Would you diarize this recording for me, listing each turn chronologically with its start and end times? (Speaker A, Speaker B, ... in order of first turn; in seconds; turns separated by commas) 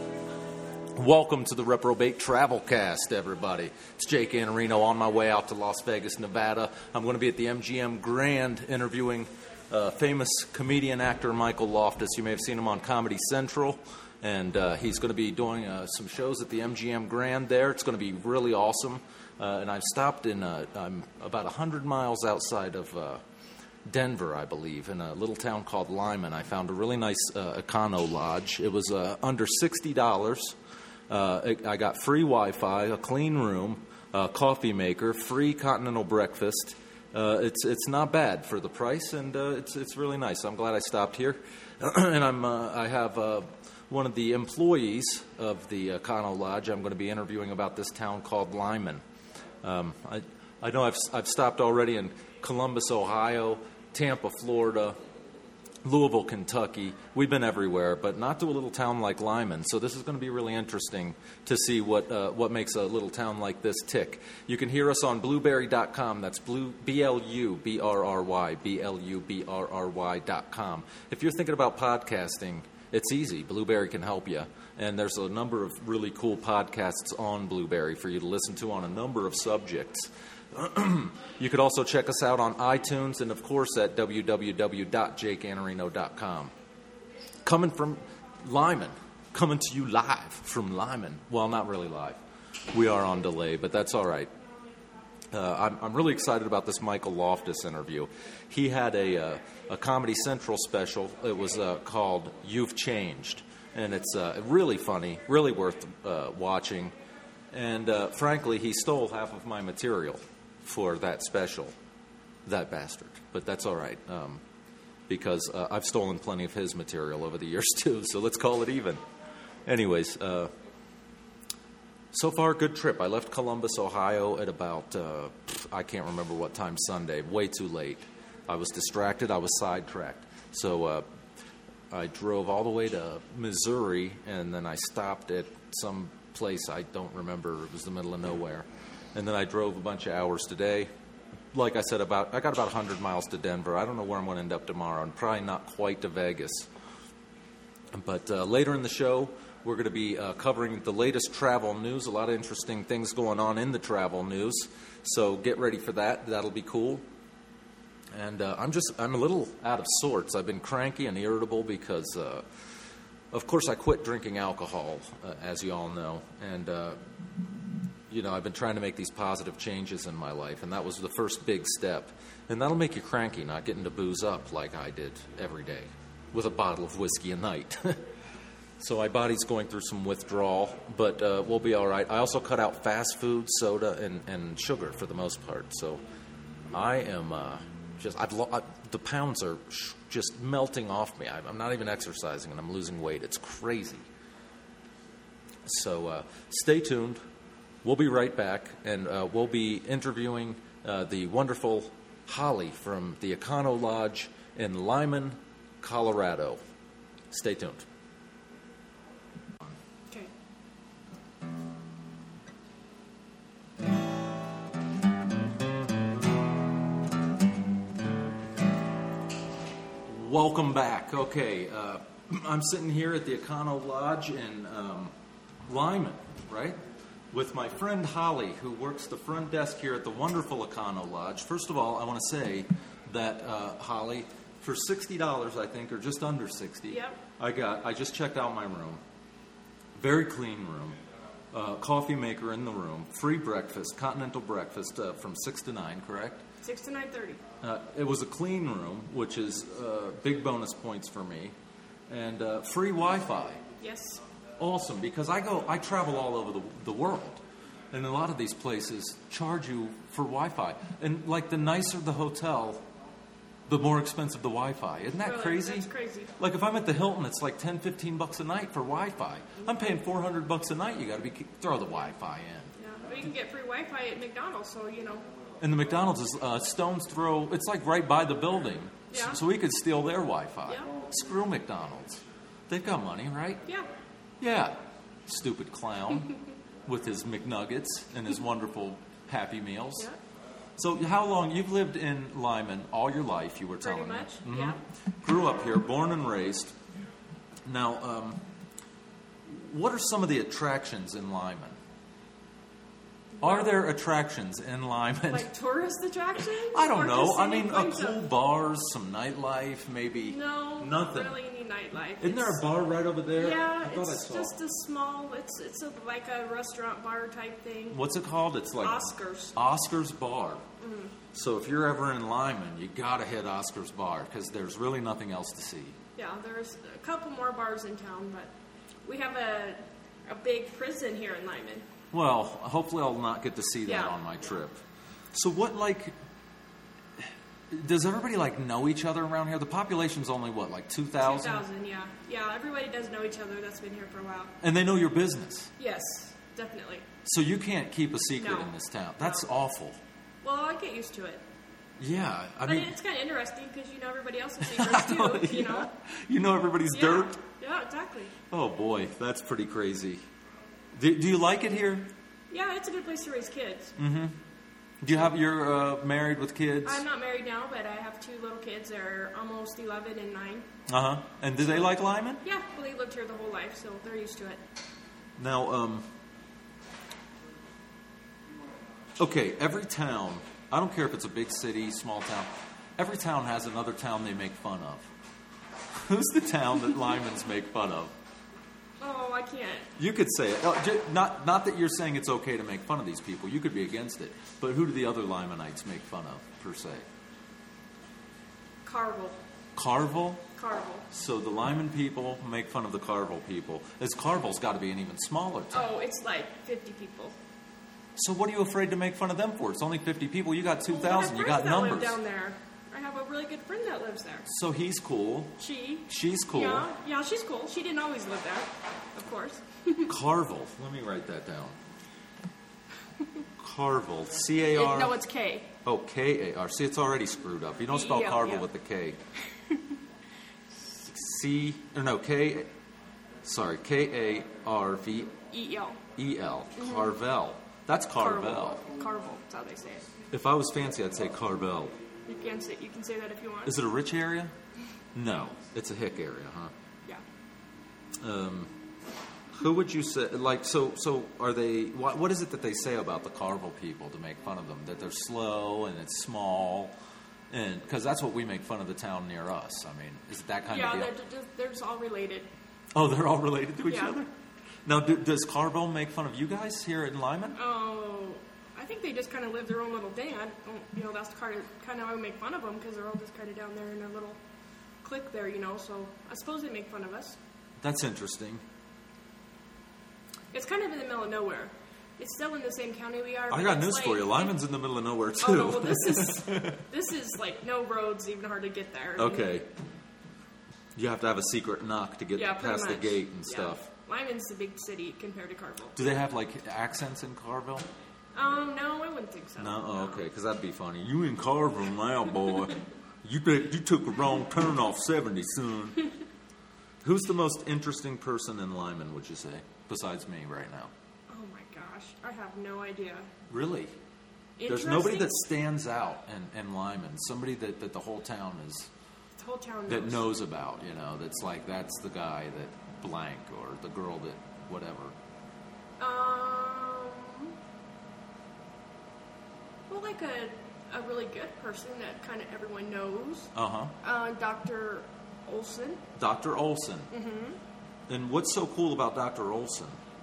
Speaker A: 0.9-23.2, Speaker A: 23.9-30.6, Speaker A: 31.1-49.0, Speaker A: 49.6-55.0, Speaker A: 55.8-86.5, Speaker A: 87.4-92.2, Speaker A: 92.7-94.3, Speaker B: 94.5-94.8, Speaker A: 95.3-106.9, Speaker A: 107.5-111.7, Speaker A: 112.5-114.4, Speaker A: 115.1-119.0, Speaker A: 119.7-120.5, Speaker A: 122.1-131.1, Speaker A: 131.9-140.9, Speaker A: 141.5-146.7, Speaker A: 147.9-157.0, Speaker A: 158.1-162.4, Speaker A: 163.3-167.0, Speaker A: 168.1-178.0, Speaker A: 178.8-186.0, Speaker A: 186.7-194.1, Speaker A: 195.6-197.2, Speaker A: 197.8-206.6, Speaker A: 207.3-207.8, Speaker A: 220.1-225.1, Speaker A: 225.7-226.8, Speaker A: 227.3-239.0, Speaker B: 236.9-237.2, Speaker A: 239.9-241.0, Speaker A: 241.5-246.4, Speaker B: 246.6-247.4, Speaker A: 247.6-251.5, Speaker A: 252.1-253.6, Speaker B: 253.8-254.2, Speaker A: 254.6-262.8, Speaker A: 263.7-272.7, Speaker B: 265.2-266.4, Speaker B: 272.7-275.3, Speaker A: 275.6-283.7, Speaker B: 279.1-279.4, Speaker B: 280.6-280.9, Speaker A: 284.4-286.3, Speaker A: 286.8-290.1, Speaker A: 290.8-296.7, Speaker B: 293.8-294.8, Speaker A: 297.6-298.4, Speaker A: 299.4-301.8, Speaker B: 303.3-303.8, Speaker A: 303.4-305.5, Speaker B: 305.3-308.2, Speaker A: 306.5-311.4, Speaker B: 310.2-312.8, Speaker A: 312.2-314.5, Speaker B: 313.3-318.0, Speaker A: 317.9-320.6, Speaker B: 318.8-319.6, Speaker B: 320.8-321.1, Speaker A: 321.3-325.9, Speaker B: 326.1-328.5, Speaker B: 329.0-331.8, Speaker A: 332.1-334.8, Speaker B: 333.8-334.2, Speaker A: 335.3-336.1, Speaker A: 337.2-341.6, Speaker B: 341.2-344.5, Speaker A: 344.6-345.7, Speaker B: 345.8-347.1, Speaker A: 347.2-350.0, Speaker B: 348.4-349.4, Speaker B: 350.4-351.4, Speaker A: 352.0-352.9, Speaker B: 352.6-355.9, Speaker A: 354.6-357.4, Speaker B: 356.9-358.3, Speaker A: 358.5-360.2, Speaker A: 360.9-362.1, Speaker B: 362.5-364.0, Speaker A: 364.0-364.4, Speaker A: 365.0-367.0, Speaker B: 366.8-370.7, Speaker A: 370.9-372.4, Speaker B: 372.4-374.6, Speaker A: 375.4-376.1, Speaker A: 379.2-385.1, Speaker A: 385.9-388.1, Speaker B: 389.0-389.9, Speaker A: 390.0-397.0, Speaker B: 398.8-399.4, Speaker A: 399.7-400.4, Speaker B: 400.5-401.1, Speaker A: 401.1-405.9, Speaker B: 405.7-407.4, Speaker A: 408.1-412.2, Speaker B: 410.9-414.5, Speaker A: 414.5-416.9, Speaker B: 415.6-420.1, Speaker A: 420.1-421.8, Speaker A: 423.6-425.2, Speaker B: 424.7-425.7, Speaker A: 425.8-429.2, Speaker B: 427.9-428.7, Speaker A: 431.0-432.7, Speaker A: 433.4-435.3, Speaker B: 435.5-436.0, Speaker A: 436.1-438.8, Speaker B: 436.8-437.1, Speaker B: 438.1-440.1, Speaker A: 440.3-441.9, Speaker B: 442.2-443.8, Speaker A: 443.6-444.5, Speaker A: 445.1-446.7, Speaker A: 448.2-448.7, Speaker A: 449.5-456.9, Speaker A: 457.5-461.1, Speaker B: 460.7-462.5, Speaker A: 462.9-464.3, Speaker B: 463.9-464.1, Speaker A: 464.8-467.6, Speaker B: 467.5-474.4, Speaker B: 475.0-477.4, Speaker A: 477.8-478.6, Speaker B: 480.5-484.6, Speaker A: 483.5-486.8, Speaker B: 485.4-489.6, Speaker A: 489.1-489.7, Speaker A: 490.9-493.9, Speaker B: 492.3-496.1, Speaker A: 495.9-497.9, Speaker B: 498.3-500.2, Speaker A: 499.6-506.0, Speaker A: 507.0-510.9, Speaker B: 511.3-513.3, Speaker A: 513.5-513.9, Speaker B: 514.6-515.4, Speaker A: 514.6-518.9, Speaker B: 519.4-520.3, Speaker A: 519.9-525.1, Speaker B: 526.0-527.5, Speaker B: 529.9-533.5, Speaker A: 533.5-533.9, Speaker B: 534.0-536.0, Speaker A: 536.1-537.1, Speaker B: 537.1-537.6, Speaker A: 538.1-540.0